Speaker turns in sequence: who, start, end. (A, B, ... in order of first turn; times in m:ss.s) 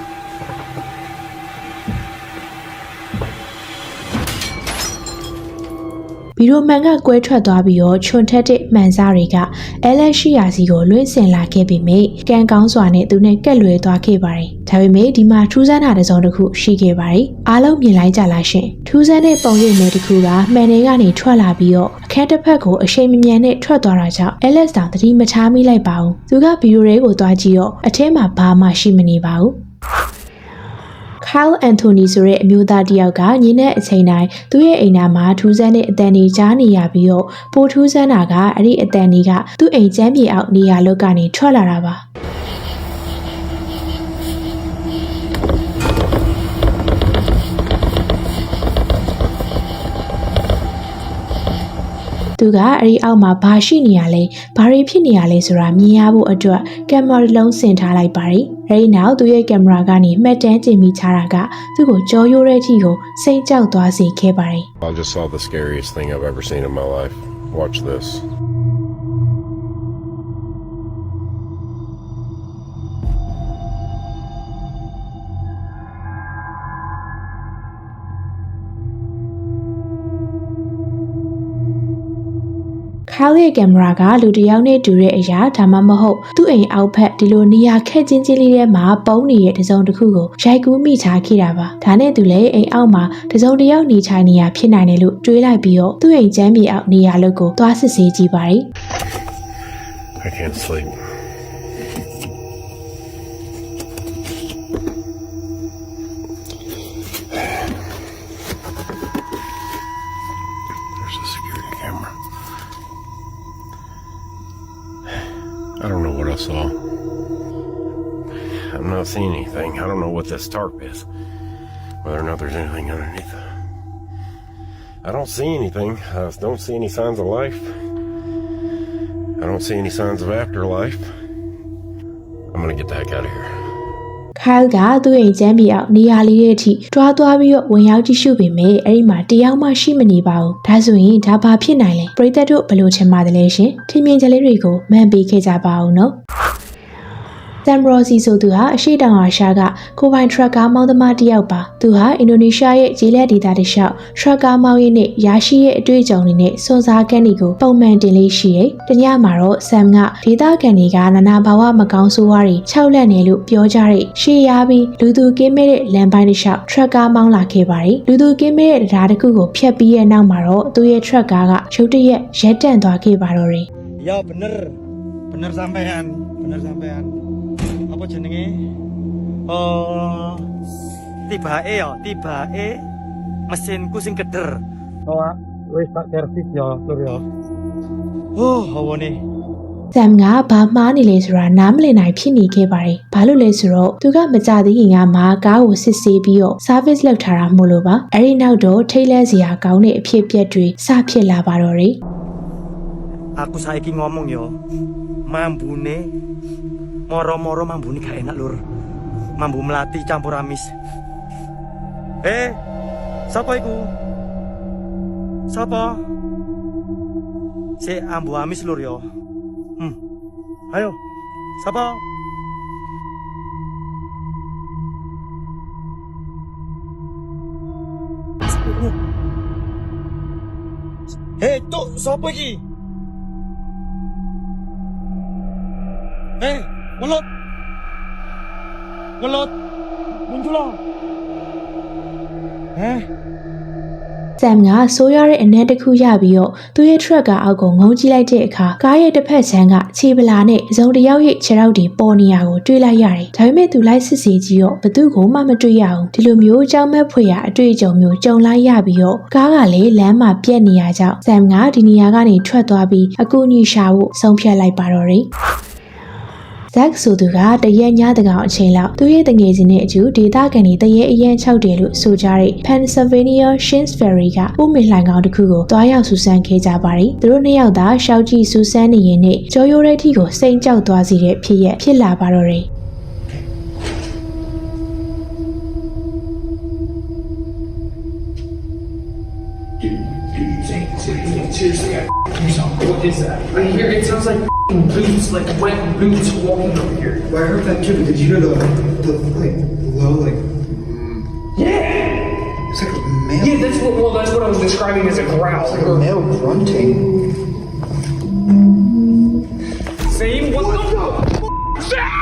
0:06.4-0:29.6 A
0:31.2-0:42.0 A
0:52.4-1:04.7 A
1:04.8-1:08.2 B
1:23.1-1:38.7 A
1:40.2-1:41.0 B
1:51.0-1:52.1 B
1:55.8-1:56.7 B
1:58.7-2:01.1 B
2:02.0-2:03.5 B
2:05.0-2:07.7 B
2:09.4-2:11.1 B
2:12.5-2:13.5 B
2:14.4-2:26.2 A
2:27.6-2:53.7 A
2:54.0-2:54.8 C
2:55.3-2:57.2 C
2:57.9-2:58.6 C
2:59.5-3:00.5 C
3:01.3-3:02.8 C
3:03.5-3:07.2 C
3:08.4-3:09.2 C
3:09.9-3:22.0 A
3:23.4-3:24.5 C
3:25.3-3:26.1 C
3:27.1-3:28.6 C
3:29.4-3:30.7 C
3:32.2-3:32.6 C
3:33.3-3:33.9 C
3:35.5-3:36.0 C
3:37.8-3:39.0 C
3:40.7-3:41.0 C
3:41.6-3:42.0 C
3:51.4-3:52.6 C
3:56.4-3:57.2 C
3:59.2-3:59.5 C
4:00.3-4:00.8 C
4:02.8-4:03.1 C
4:04.4-4:25.3 A
4:26.7-4:42.7 A
4:52.8-4:57.2 D
4:53.5-4:53.9 E
4:57.3-5:01.2 E
5:01.6-5:02.1 D
5:02.7-5:03.8 E
5:03.4-5:05.8 D
5:05.6-5:07.0 E
5:10.1-5:10.9 D
5:10.7-5:10.9 E